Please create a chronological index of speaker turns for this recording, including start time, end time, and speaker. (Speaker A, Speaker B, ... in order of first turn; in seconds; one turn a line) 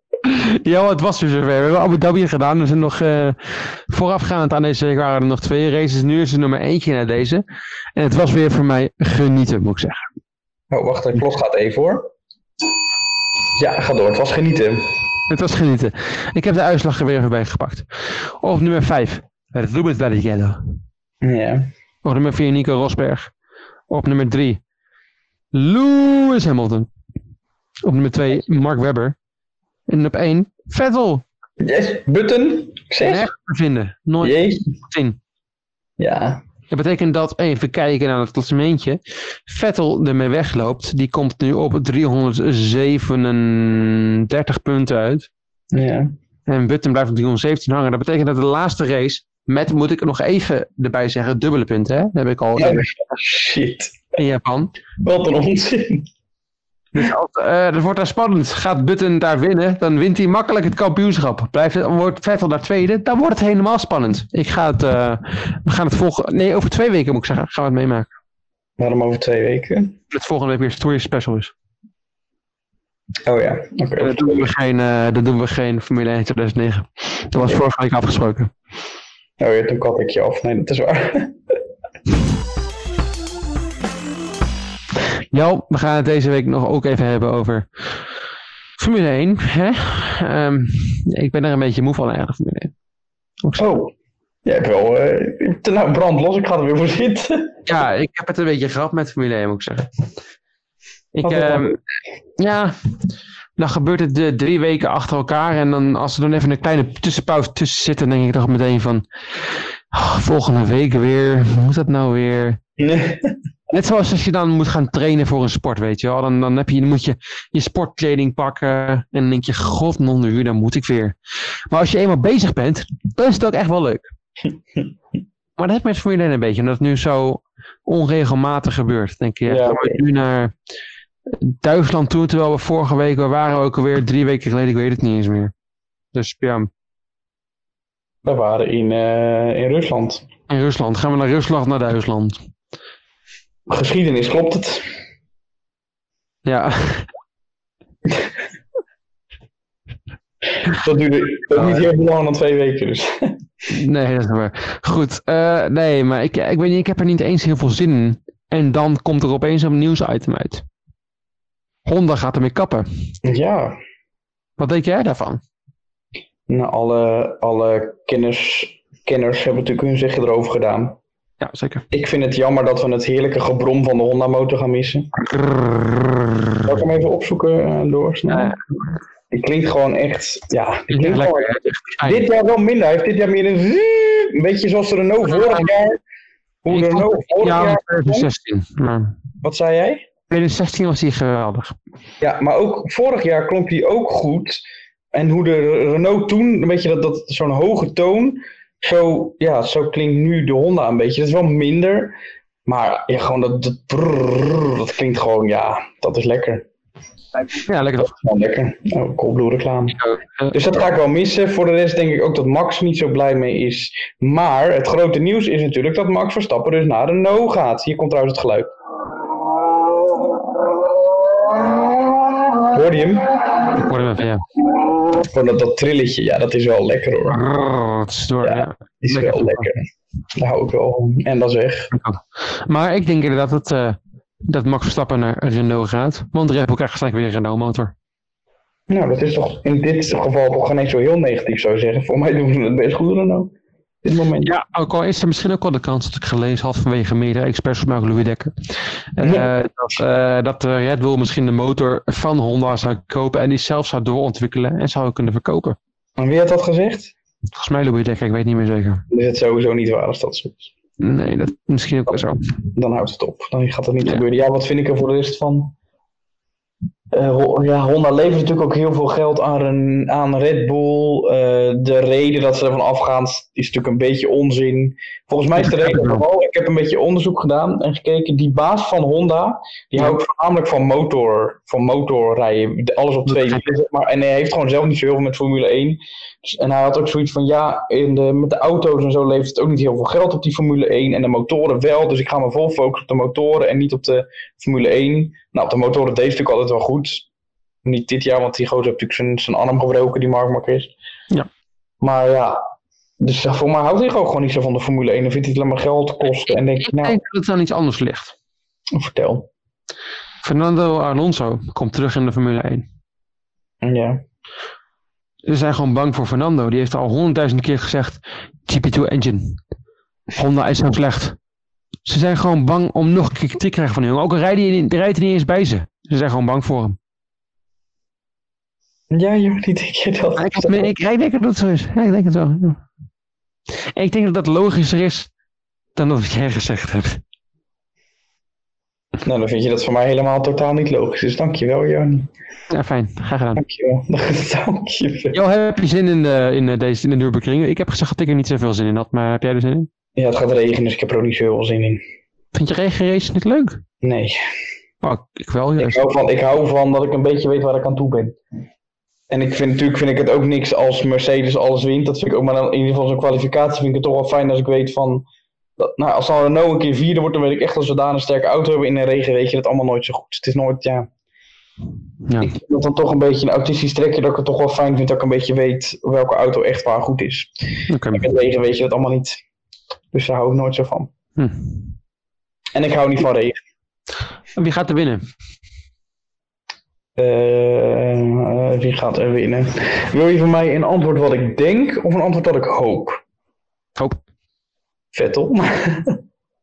Speaker A: 0.2-7.4
Speaker A: 8.0-10.1
Speaker B: 10.7-12.1
Speaker B: 13.6-15.0
Speaker A: 15.3-20.8
Speaker B: 21.2-21.7
Speaker A: 22.0-23.3
Speaker A: 23.9-24.6
Speaker A: 25.5-26.9
Speaker A: 27.8-29.2
Speaker A: 29.9-31.2
Speaker B: 31.6-33.3
Speaker A: 33.0-35.2
Speaker B: 34.2-34.6
Speaker B: 36.0-36.4
Speaker A: 36.7-45.3
Speaker B: 45.7-46.1
Speaker A: 46.5-52.9
Speaker B: 52.6-54.0
Speaker A: 54.1-54.7
Speaker B: 55.0-56.1
Speaker A: 56.9-68.1
Speaker B: 68.8-70.0
Speaker A: 70.1-71.5
Speaker B: 73.2-74.5
Speaker A: 74.0-78.5
Speaker B: 79.4-81.4
Speaker A: 85.3-87.7
Speaker A: 88.8-92.7
Speaker B: 93.6-93.9
Speaker B: 94.5-97.5
Speaker A: 97.7-99.9
Speaker A: 101.1-101.8
Speaker B: 101.2-101.7
Speaker A: 102.4-102.8
Speaker A: 103.6-109.0
Speaker A: 109.9-112.6
Speaker B: 112.8-113.3
Speaker A: 113.7-121.2
Speaker A: 121.7-124.1
Speaker A: 125.6-130.5
Speaker B: 129.5-130.0
Speaker A: 131.3-135.5
Speaker A: 136.1-136.7
Speaker B: 138.2-140.2
Speaker A: 140.5-142.4
Speaker B: 143.7-144.9
Speaker A: 146.4-147.1
Speaker B: 150.7-153.4
Speaker A: 151.6-151.8
Speaker A: 153.7-160.7
Speaker A: 161.9-162.9
Speaker B: 163.2-163.8
Speaker A: 164.6-165.4
Speaker B: 166.5-171.0
Speaker A: 171.4-171.8
Speaker B: 171.9-175.1
Speaker A: 175.3-176.2
Speaker B: 176.6-178.6
Speaker A: 178.3-178.6
Speaker B: 179.3-181.5
Speaker A: 180.9-182.2
Speaker B: 182.0-186.0
Speaker A: 185.3-185.7
Speaker B: 186.6-188.3
Speaker A: 186.7-189.2
Speaker B: 189.4-190.1
Speaker A: 190.3-191.8
Speaker B: 192.2-202.2
Speaker B: 202.7-206.7
Speaker A: 207.5-208.1
Speaker B: 208.0-210.0
Speaker A: 210.0-210.5
Speaker B: 210.5-218.7
Speaker B: 222.6-223.7
Speaker A: 223.7-224.4
Speaker B: 225.2-227.4
Speaker A: 227.3-229.7
Speaker B: 228.4-229.8
Speaker B: 230.4-231.9
Speaker A: 231.9-237.9
Speaker B: 238.9-243.5
Speaker B: 244.0-244.5
Speaker A: 244.4-248.5
Speaker A: 249.2-255.8
Speaker B: 249.2-249.5
Speaker B: 256.2-257.1
Speaker A: 257.6-259.0
Speaker B: 259.1-260.7
Speaker A: 261.0-262.4
Speaker B: 262.8-265.8
Speaker B: 267.1-297.3
Speaker A: 275.6-276.2
Speaker A: 283.3-283.6
Speaker B: 297.9-300.9
Speaker B: 302.0-302.6
Speaker B: 303.2-307.2
Speaker A: 306.8-308.3
Speaker B: 308.9-309.5
Speaker A: 310.4-312.9
Speaker B: 313.8-314.2
Speaker A: 315.4-319.6
Speaker A: 320.4-321.4
Speaker A: 322.1-327.0
Speaker B: 329.1-330.9
Speaker A: 330.4-332.8
Speaker A: 333.9-335.3
Speaker A: 336.0-337.2
Speaker B: 339.2-342.3
Speaker A: 342.7-343.6
Speaker B: 343.6-345.4
Speaker A: 345.3-349.9
Speaker B: 350.2-352.0
Speaker A: 352.5-353.8
Speaker B: 354.0-354.4
Speaker A: 355.0-356.0
Speaker B: 355.8-358.4
Speaker B: 359.3-365.3
Speaker B: 365.8-371.1
Speaker A: 372.2-372.5
Speaker B: 372.4-377.5
Speaker A: 377.9-378.3
Speaker B: 378.1-379.4
Speaker B: 380.1-381.1
Speaker A: 381.4-381.9
Speaker B: 382.8-383.6
Speaker A: 384.6-385.3
Speaker B: 387.2-393.2
Speaker B: 395.1-396.2